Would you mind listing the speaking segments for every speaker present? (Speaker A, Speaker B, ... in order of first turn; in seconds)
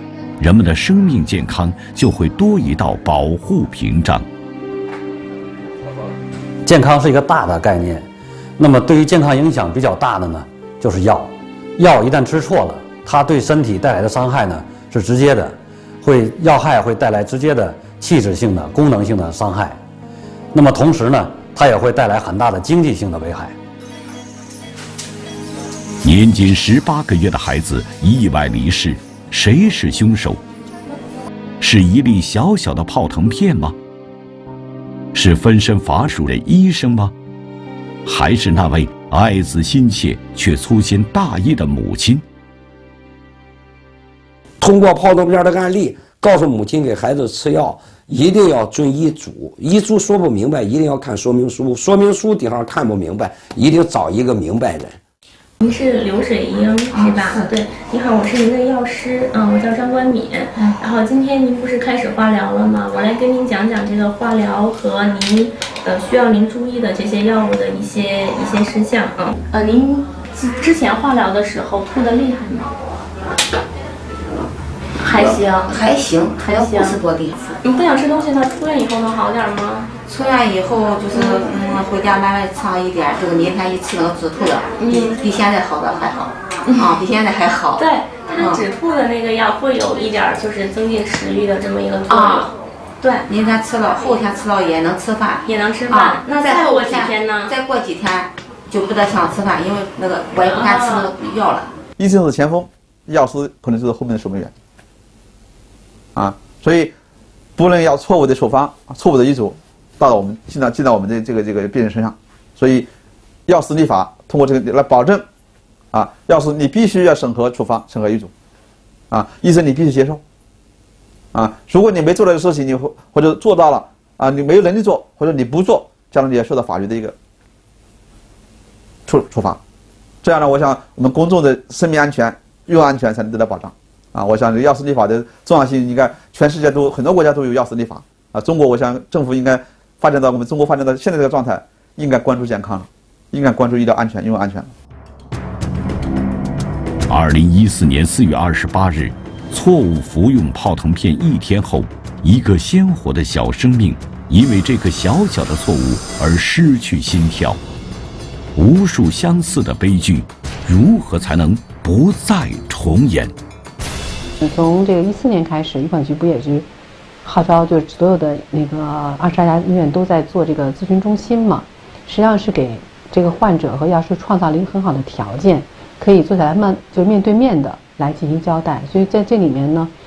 Speaker A: 0.4-4.3, 26.0-30.4, 31.6-33.8, 35.1-37.1, 38.1-42.2, 147.1-157.6, 158.6-163.3
Speaker B: 6.7-8.1, 8.6-19.8, 20.5-23.6
Speaker C: 44.6-55.0
Speaker D: 55.6-72.7, 75.0-75.8, 76.4-77.0, 77.6-79.9, 81.1-81.5, 84.8-85.3, 87.8-93.3, 95.5-97.5, 100.4-101.1
Speaker E: 57.0-57.5, 75.0-77.6, 80.1-88.7, 92.1-92.5, 93.3-101.7
Speaker F: 102.0-104.5, 106.2-106.9, 107.6-112.9, 113.5-115.2, 115.9-118.3, 119.1-120.2, 121.3-127.2, 129.1-129.6, 130.2-144.7
Speaker G: 164.4-166.7, 167.2-179.9